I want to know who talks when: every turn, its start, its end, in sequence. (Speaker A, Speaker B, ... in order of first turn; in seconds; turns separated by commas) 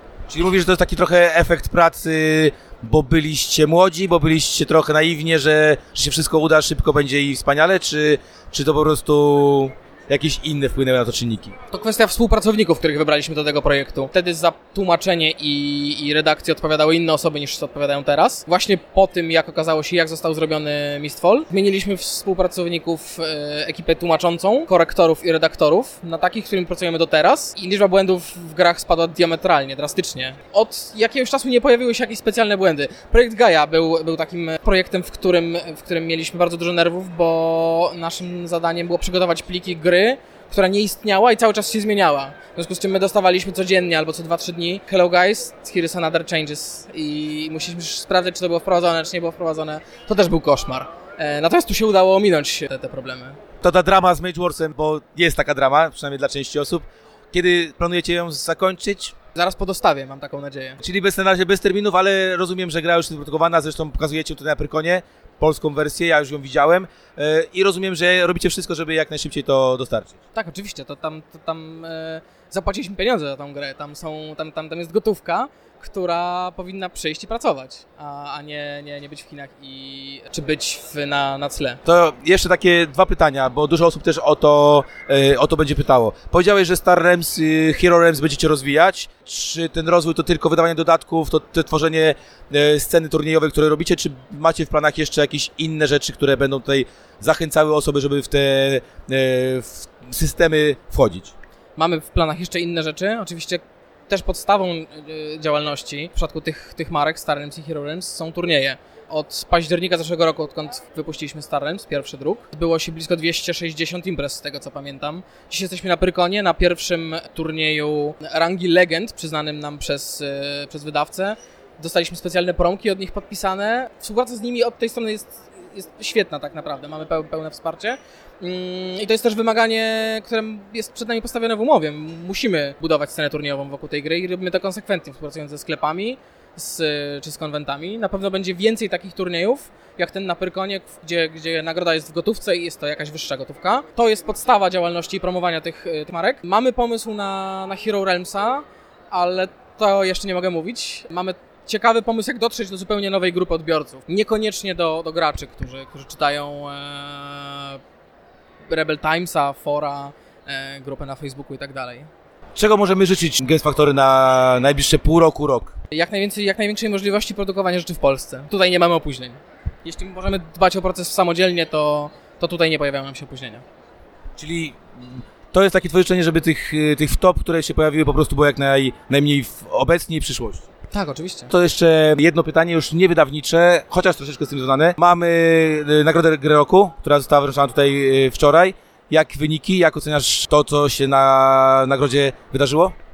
Speaker A: 0.3-11.6, Speaker B: 11.7-53.4, Speaker A: 53.6-59.1, Speaker B: 59.3-60.8, Speaker A: 60.8-70.1, Speaker B: 70.3-81.8, Speaker A: 81.8-101.3, Speaker B: 101.8-157.8, Speaker B: 158.7-162.1, Speaker A: 162.6-165.7, Speaker B: 165.9-173.6, Speaker A: 174.4-180.6, Speaker B: 180.9-181.5, Speaker A: 181.5-192.9